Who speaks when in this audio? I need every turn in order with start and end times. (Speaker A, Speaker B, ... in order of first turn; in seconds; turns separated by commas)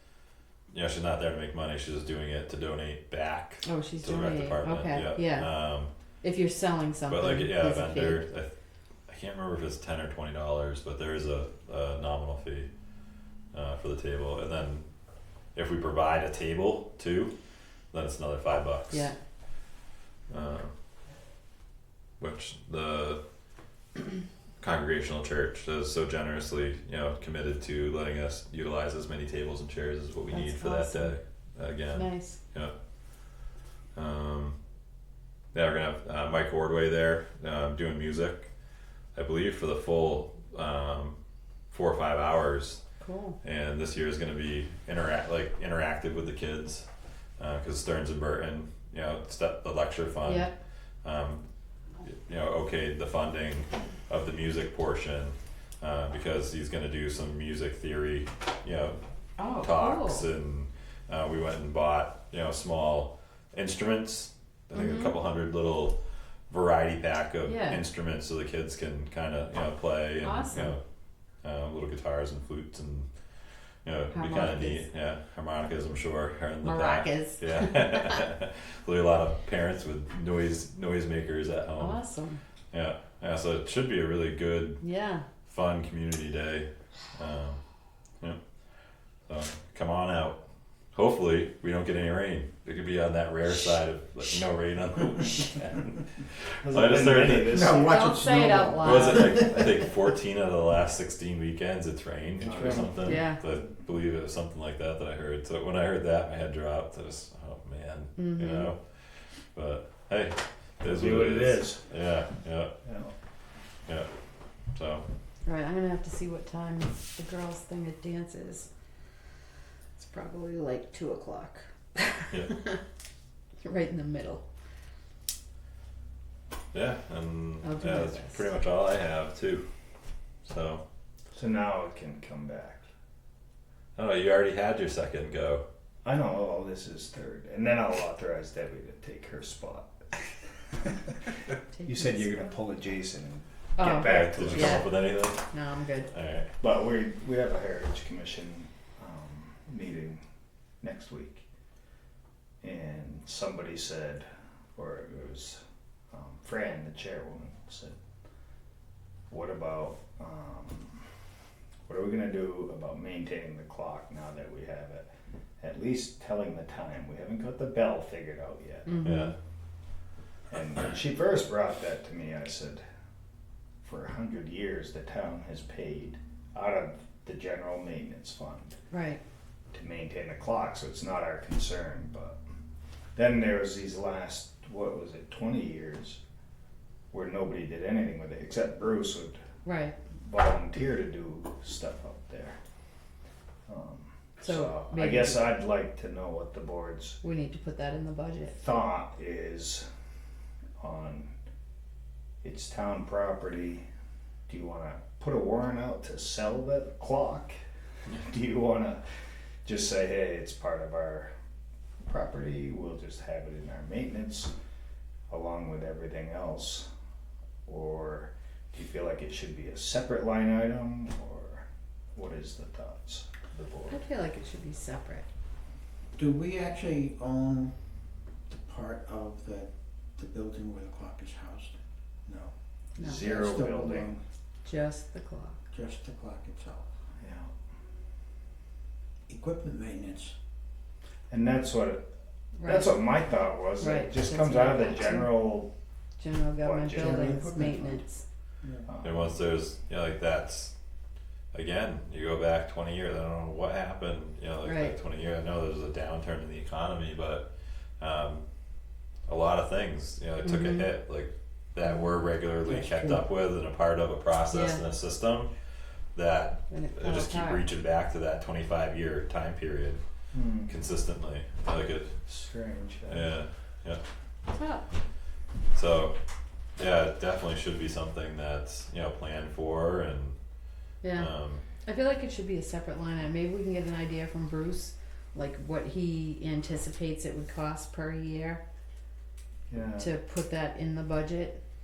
Speaker A: 0.7-5.9, Speaker B: 3.6-5.5, Speaker B: 6.2-8.3, Speaker A: 7.1-8.5, Speaker A: 9.1-12.7, Speaker A: 13.5-14.9, Speaker A: 15.5-17.3, Speaker A: 17.9-19.1, Speaker A: 20.3-20.7, Speaker A: 22.2-23.2, Speaker A: 24.6-32.7, Speaker B: 30.3-31.1, Speaker B: 31.9-32.4, Speaker A: 33.9-34.5, Speaker A: 35.5-38.5, Speaker A: 39.1-41.1, Speaker A: 41.7-42.8, Speaker B: 43.0-43.4, Speaker A: 43.4-46.9, Speaker A: 47.4-50.5, Speaker B: 50.2-50.5, Speaker A: 51.0-51.4, Speaker A: 52.0-59.0, Speaker B: 59.4-60.2, Speaker A: 59.5-66.0, Speaker B: 64.7-65.2, Speaker A: 66.5-70.8, Speaker B: 67.4-67.8, Speaker B: 70.2-70.8, Speaker A: 71.4-73.1, Speaker A: 73.8-82.0, Speaker B: 74.1-74.8, Speaker B: 76.6-78.3, Speaker B: 81.8-82.4, Speaker A: 82.7-84.8, Speaker B: 84.8-85.2, Speaker A: 85.4-87.6, Speaker A: 89.3-90.4, Speaker A: 90.9-97.7, Speaker C: 96.6-98.2, Speaker D: 97.4-99.7, Speaker B: 97.8-99.7, Speaker A: 98.8-112.7, Speaker C: 102.4-103.2, Speaker D: 102.4-103.1, Speaker B: 103.0-103.4, Speaker B: 108.2-108.7, Speaker C: 110.8-111.8, Speaker C: 112.8-113.1, Speaker A: 114.7-115.0, Speaker B: 115.4-118.7, Speaker B: 120.0-122.8, Speaker B: 123.6-124.4, Speaker A: 126.7-129.7, Speaker B: 127.6-128.4, Speaker A: 130.4-130.8, Speaker C: 131.3-132.9, Speaker A: 133.9-135.6, Speaker C: 136.0-141.2, Speaker B: 141.7-142.5, Speaker C: 141.8-144.8, Speaker B: 143.8-146.1, Speaker A: 144.0-145.5, Speaker A: 146.1-146.5, Speaker C: 146.6-150.2, Speaker C: 150.8-151.4, Speaker C: 152.6-157.9, Speaker C: 159.3-161.0, Speaker C: 161.8-165.1, Speaker C: 165.6-169.0, Speaker B: 168.8-169.3, Speaker A: 169.0-169.3, Speaker C: 170.5-172.8, Speaker C: 173.8-178.8, Speaker B: 178.9-179.2, Speaker C: 179.7-182.4, Speaker C: 183.1-186.2, Speaker C: 187.1-189.4, Speaker B: 189.6-189.9, Speaker C: 190.2-192.6, Speaker C: 193.7-197.2, Speaker B: 194.4-195.5, Speaker B: 197.2-198.5, Speaker C: 198.6-199.8, Speaker C: 200.8-201.3, Speaker C: 202.4-203.8, Speaker C: 204.5-207.6, Speaker C: 208.1-209.0, Speaker C: 209.6-211.3, Speaker C: 212.0-214.5, Speaker C: 215.3-216.9, Speaker C: 217.7-224.0, Speaker B: 223.9-225.3, Speaker D: 226.2-227.7, Speaker D: 228.5-231.7, Speaker D: 232.2-232.5, Speaker C: 232.9-234.2, Speaker D: 233.0-234.1, Speaker B: 234.6-235.6, Speaker D: 235.7-236.9, Speaker C: 237.2-237.5, Speaker D: 239.3-240.3, Speaker C: 241.3-242.0, Speaker B: 242.6-242.9, Speaker C: 242.6-245.7, Speaker B: 243.8-245.3, Speaker B: 246.2-248.2, Speaker C: 246.6-247.5, Speaker D: 246.9-248.0, Speaker D: 248.6-248.9, Speaker C: 248.8-249.3, Speaker A: 249.0-250.7, Speaker A: 251.5-257.5, Speaker B: 254.6-254.9, Speaker A: 258.0-258.4, Speaker A: 259.3-265.5, Speaker B: 260.4-260.9, Speaker D: 262.7-263.2, Speaker B: 264.5-264.8, Speaker A: 266.1-270.0, Speaker B: 266.7-267.6, Speaker C: 270.3-270.7, Speaker A: 270.6-272.2, Speaker C: 272.2-273.3, Speaker A: 273.1-274.0, Speaker B: 274.5-274.9, Speaker A: 275.7-276.2, Speaker A: 276.8-280.4, Speaker A: 280.9-281.6, Speaker B: 281.0-281.3, Speaker B: 281.8-288.6, Speaker C: 289.7-290.1, Speaker B: 290.0-291.6